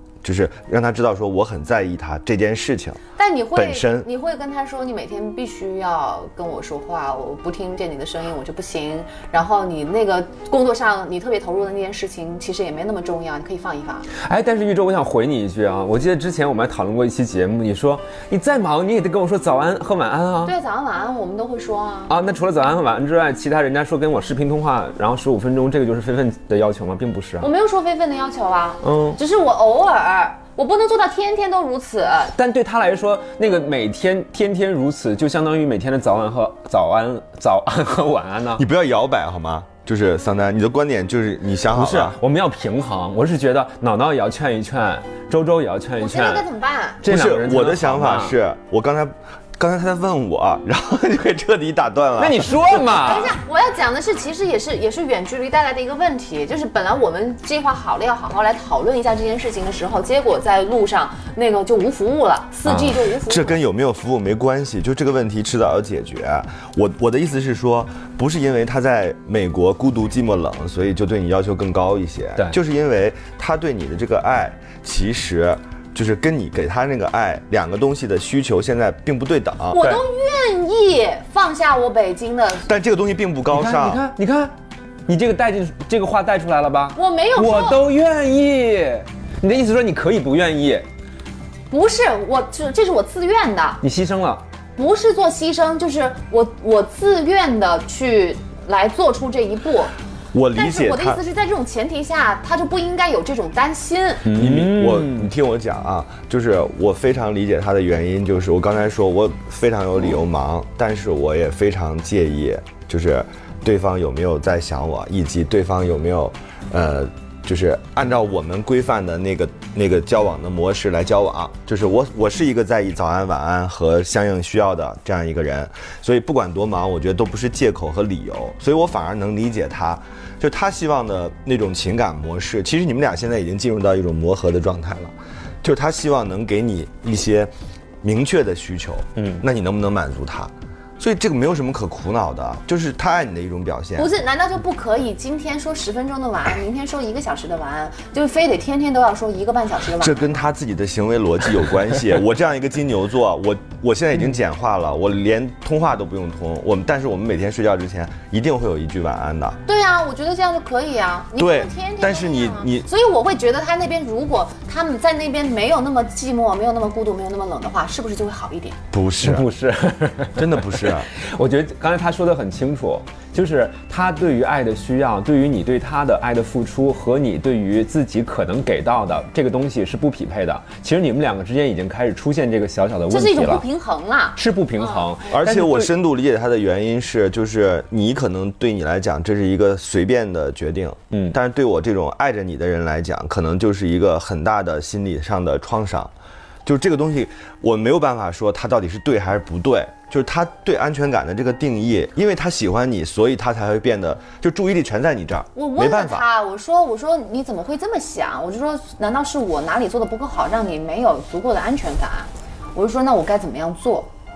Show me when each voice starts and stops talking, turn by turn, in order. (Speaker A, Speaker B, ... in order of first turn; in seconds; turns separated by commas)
Speaker A: 0.2-3.0, Speaker B: 3.2-14.1, Speaker A: 3.5-4.1, Speaker C: 14.2-20.5, Speaker B: 20.4-22.1, Speaker C: 22.1-27.5, Speaker B: 27.4-32.4, Speaker C: 28.8-29.2, Speaker C: 32.4-38.6, Speaker A: 38.6-42.2, Speaker C: 41.7-46.5, Speaker B: 46.0-47.0, Speaker C: 47.0-48.3, Speaker A: 47.0-52.9, Speaker C: 52.2-53.4, Speaker B: 52.9-63.5, Speaker C: 62.6-63.0, Speaker A: 63.2-79.8, Speaker B: 79.7-82.7, Speaker A: 82.7-84.0, Speaker C: 83.5-84.5, Speaker C: 85.1-90.8, Speaker B: 86.9-87.8, Speaker B: 91.7-93.8, Speaker C: 93.8-94.4, Speaker B: 94.8-99.9, Speaker A: 100.3-101.2, Speaker B: 100.5-104.3, Speaker C: 104.2-105.3, Speaker A: 104.3-137.5, Speaker A: 138.0-144.1, Speaker B: 144.0-150.3, Speaker A: 150.0-159.6, Speaker B: 159.7-168.8, Speaker A: 161.4-162.9, Speaker A: 168.9-169.5, Speaker C: 169.2-183.6, Speaker A: 170.3-171.1, Speaker B: 183.1-185.1, Speaker C: 184.3-185.9, Speaker A: 185.3-196.1, Speaker A: 196.6-206.2, Speaker B: 205.5-214.1